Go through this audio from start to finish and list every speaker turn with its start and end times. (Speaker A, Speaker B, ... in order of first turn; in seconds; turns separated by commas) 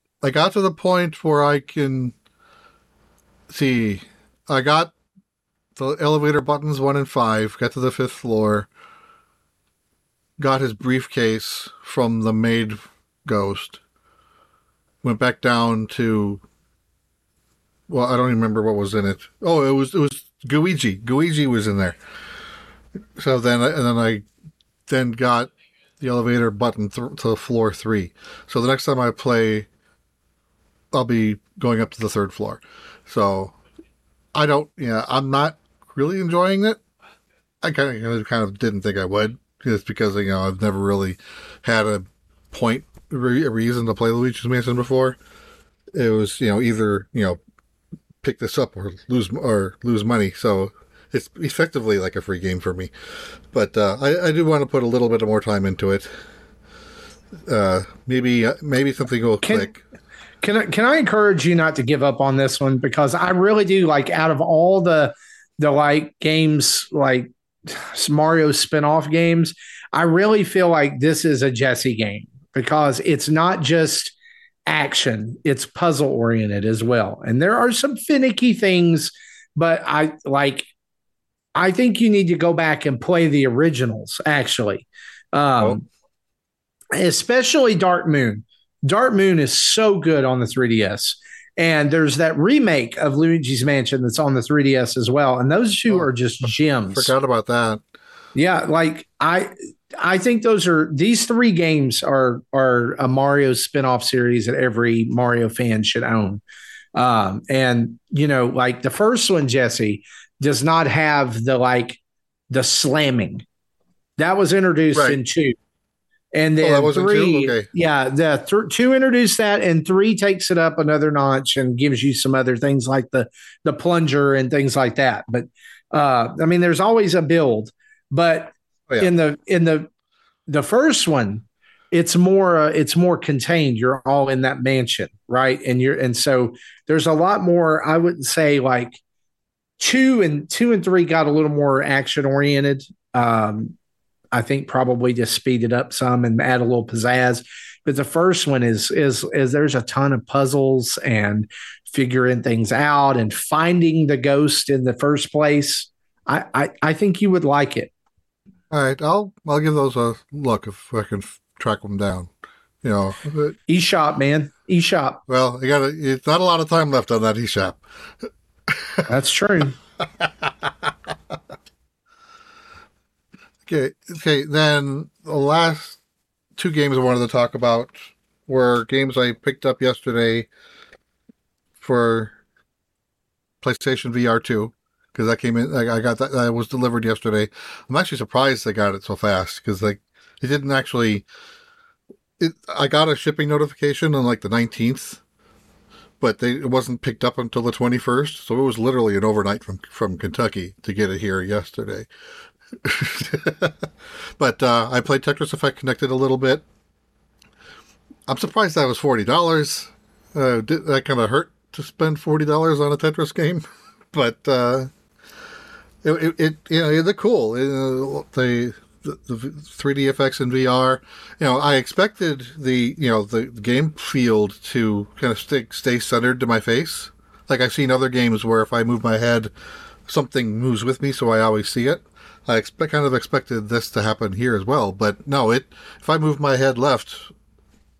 Speaker A: 0.2-2.1, Speaker A: 3.5-4.9, Speaker A: 5.8-8.7, Speaker A: 10.4-13.8, Speaker A: 15.0-16.4, Speaker A: 17.9-21.9, Speaker A: 23.2-24.2, Speaker A: 24.9-29.7, Speaker A: 30.9-33.5, Speaker A: 34.3-36.8, Speaker A: 37.6-45.2, Speaker A: 45.9-47.4, Speaker A: 48.2-52.9, Speaker A: 53.5-56.1, Speaker A: 57.5-59.8, Speaker B: 59.4-59.7, Speaker B: 60.4-74.1, Speaker B: 74.7-80.7, Speaker B: 81.5-85.8, Speaker B: 86.9-97.1, Speaker A: 96.9-97.8, Speaker B: 98.3-106.4, Speaker B: 106.9-112.0, Speaker B: 112.5-113.4, Speaker B: 114.2-115.5, Speaker A: 114.9-115.2, Speaker B: 116.3-129.9, Speaker A: 116.6-117.7, Speaker B: 130.5-139.0, Speaker B: 139.8-143.7, Speaker B: 144.3-157.9, Speaker A: 158.7-162.3, Speaker A: 162.8-163.6, Speaker B: 163.7-165.2, Speaker A: 165.3-167.8, Speaker A: 168.7-169.1, Speaker B: 169.1-169.8, Speaker A: 173.7-176.0, Speaker A: 176.6-180.5, Speaker A: 181.8-182.3, Speaker A: 183.6-191.2, Speaker A: 192.4-195.2, Speaker A: 196.2-202.1, Speaker A: 202.8-206.6, Speaker A: 208.3-214.9, Speaker A: 216.0-229.5, Speaker A: 230.1-237.3